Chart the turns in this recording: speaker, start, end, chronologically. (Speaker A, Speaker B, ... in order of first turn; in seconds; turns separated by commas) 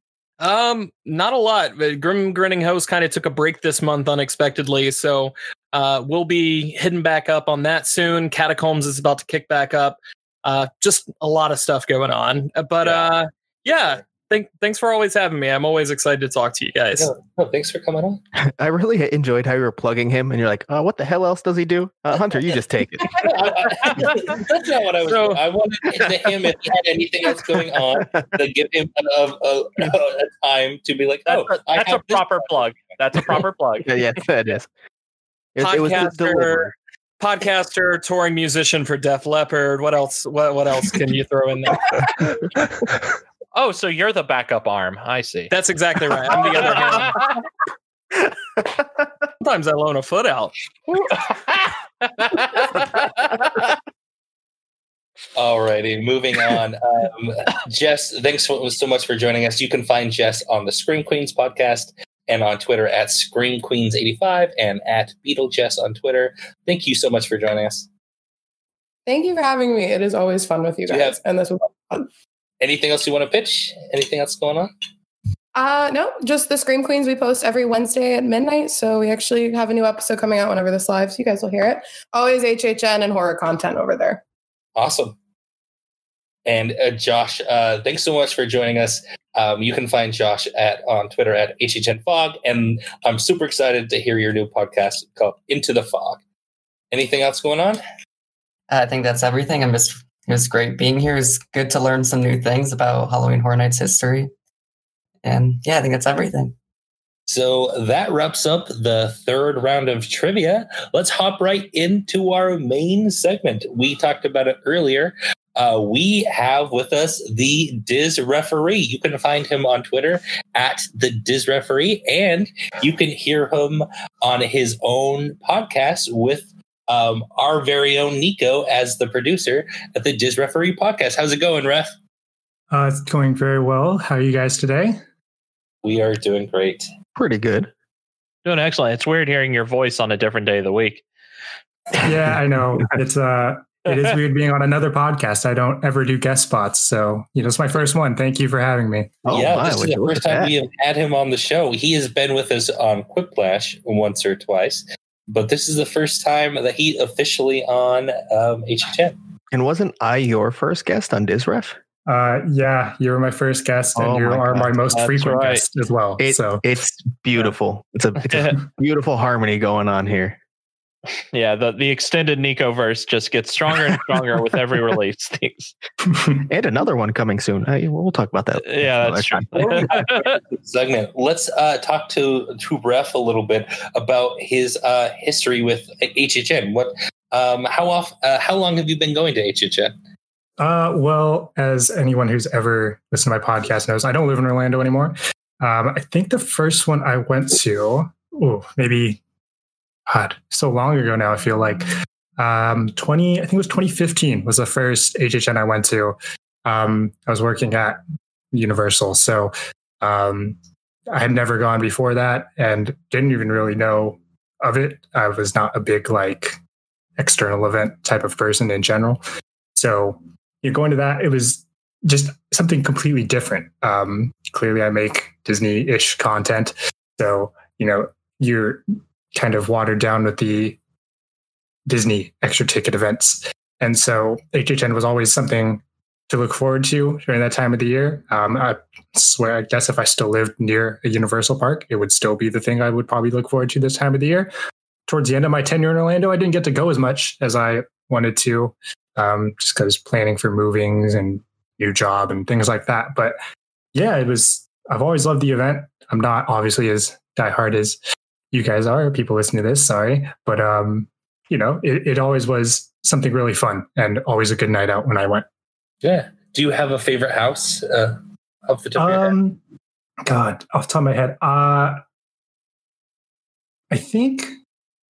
Speaker A: 0.4-17.1, Speaker B: 12.8-13.1, Speaker B: 17.0-18.2, Speaker C: 18.4-23.4, Speaker B: 23.2-32.6, Speaker A: 25.0-25.4, Speaker C: 27.4-28.2, Speaker D: 31.3-33.9, Speaker C: 33.8-34.7, Speaker C: 35.5-36.7, Speaker A: 35.6-42.3, Speaker D: 43.5-45.5, Speaker A: 45.5-47.2, Speaker D: 46.4-47.2, Speaker A: 49.4-50.5, Speaker D: 52.2-53.5, Speaker B: 55.4-67.9, Speaker E: 69.0-72.1, Speaker B: 70.9-71.2, Speaker B: 72.6-74.7, Speaker E: 75.5-84.2, Speaker B: 84.8-85.2, Speaker B: 86.5-96.2, Speaker B: 96.9-97.8, Speaker F: 98.7-104.3, Speaker F: 105.2-106.5, Speaker B: 107.3-131.9, Speaker G: 132.7-135.0, Speaker B: 135.8-136.9, Speaker C: 137.1-137.7, Speaker D: 138.4-141.0, Speaker G: 142.0-149.3, Speaker C: 149.2-150.5, Speaker B: 149.3-159.2, Speaker C: 159.5-161.8, Speaker G: 162.1-166.6, Speaker C: 163.9-164.8, Speaker D: 164.9-165.6, Speaker C: 166.2-170.4, Speaker D: 168.3-168.6, Speaker D: 171.3-175.7, Speaker C: 176.4-179.5, Speaker D: 178.6-180.4, Speaker B: 179.6-189.9, Speaker G: 190.6-199.2, Speaker G: 200.1-201.8, Speaker G: 202.4-208.0, Speaker G: 208.5-210.6, Speaker G: 211.1-216.6, Speaker G: 217.2-219.2, Speaker G: 219.8-228.8, Speaker G: 229.3-230.8, Speaker G: 231.9-244.5, Speaker G: 245.1-253.4, Speaker G: 253.9-258.0, Speaker G: 258.5-265.4, Speaker B: 266.0-269.4, Speaker G: 268.9-269.6, Speaker G: 270.3-272.0, Speaker G: 273.9-274.5